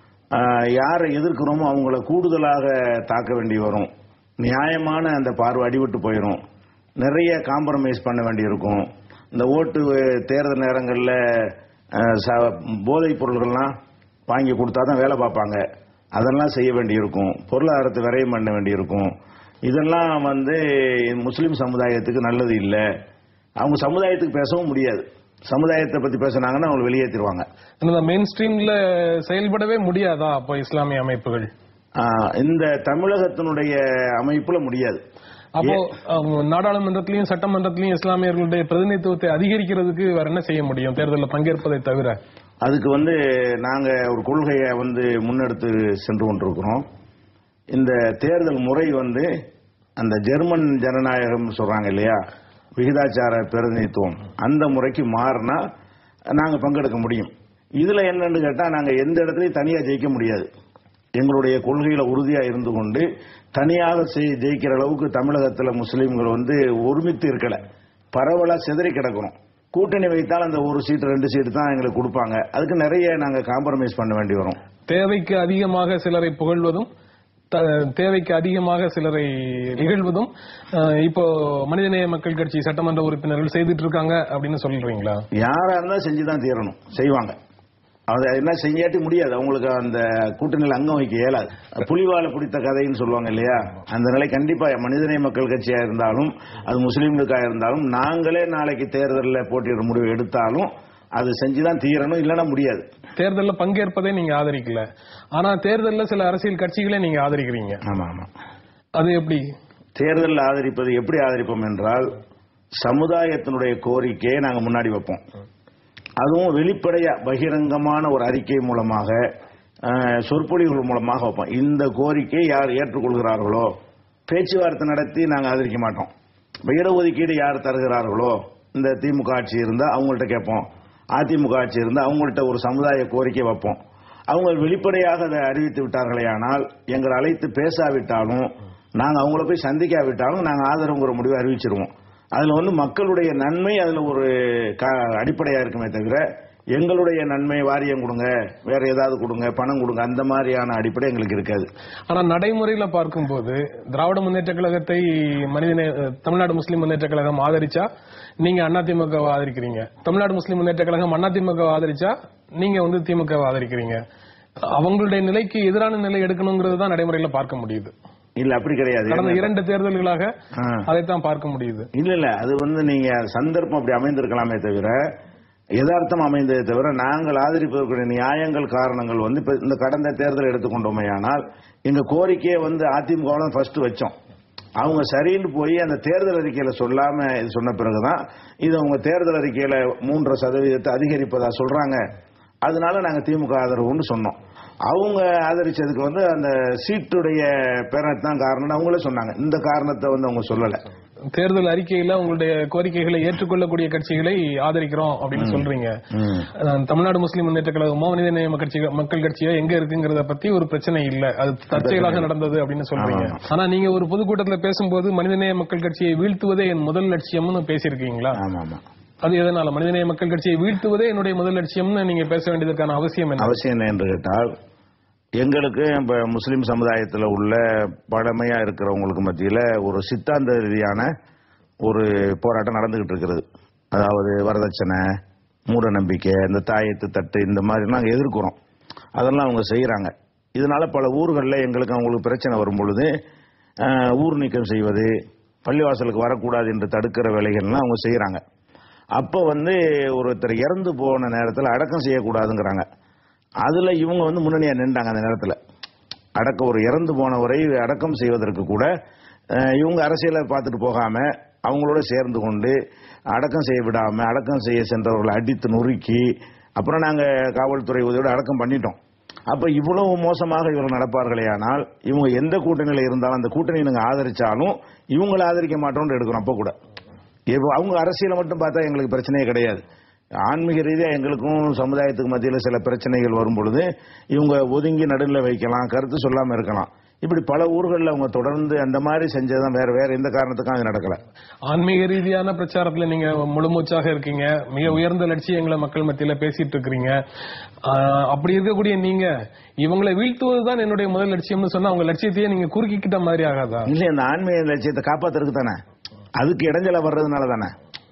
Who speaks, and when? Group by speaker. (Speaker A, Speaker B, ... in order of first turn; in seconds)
Speaker A: 0.3-3.9, 4.4-6.4, 7.0-13.7, 14.3-15.6, 16.1-19.1, 19.7-22.8, 23.6-27.4, 32.0-35.0, 42.6-46.8, 47.7-49.3, 50.0-52.2, 52.8-55.6, 56.4-60.5, 61.2-67.6, 68.1-74.6, 85.4-87.3, 88.1-102.8, 107.8-108.3, 110.0-112.1, 112.8-115.2, 116.2-119.2, 119.9-123.7, 124.3-126.1, 126.7-130.6, 131.2-133.8, 134.3-146.2, 146.8-151.7, 168.4-169.5, 170.5-170.9, 171.9-175.0, 175.8-184.1, 184.8-192.0, 192.6-194.3, 194.9-200.8, 205.3-206.5, 211.7-212.3, 212.9-213.4, 218.4-218.8, 223.4-224.5, 225.4-231.1, 231.8-235.1, 235.7-238.6, 239.2-243.1, 243.8-245.1, 245.6-248.4, 249.2-252.8, 253.6-255.6, 256.4-258.9, 259.6-262.7, 263.3-266.2, 266.8-269.0, 269.5-276.7, 277.5-279.8, 280.4-291.2, 303.9-305.8, 306.4-307.7
Speaker B: 27.8-31.5, 35.6-42.2, 74.9-76.9, 77.5-85.2, 103.2-107.8, 109.0-109.4, 152.1-157.9, 158.4-164.0, 164.7-167.9, 169.1-170.3, 170.8-171.9, 201.3-205.9, 206.5-218.4, 219.2-223.6, 291.7-297.2, 297.8-299.3, 299.8-303.9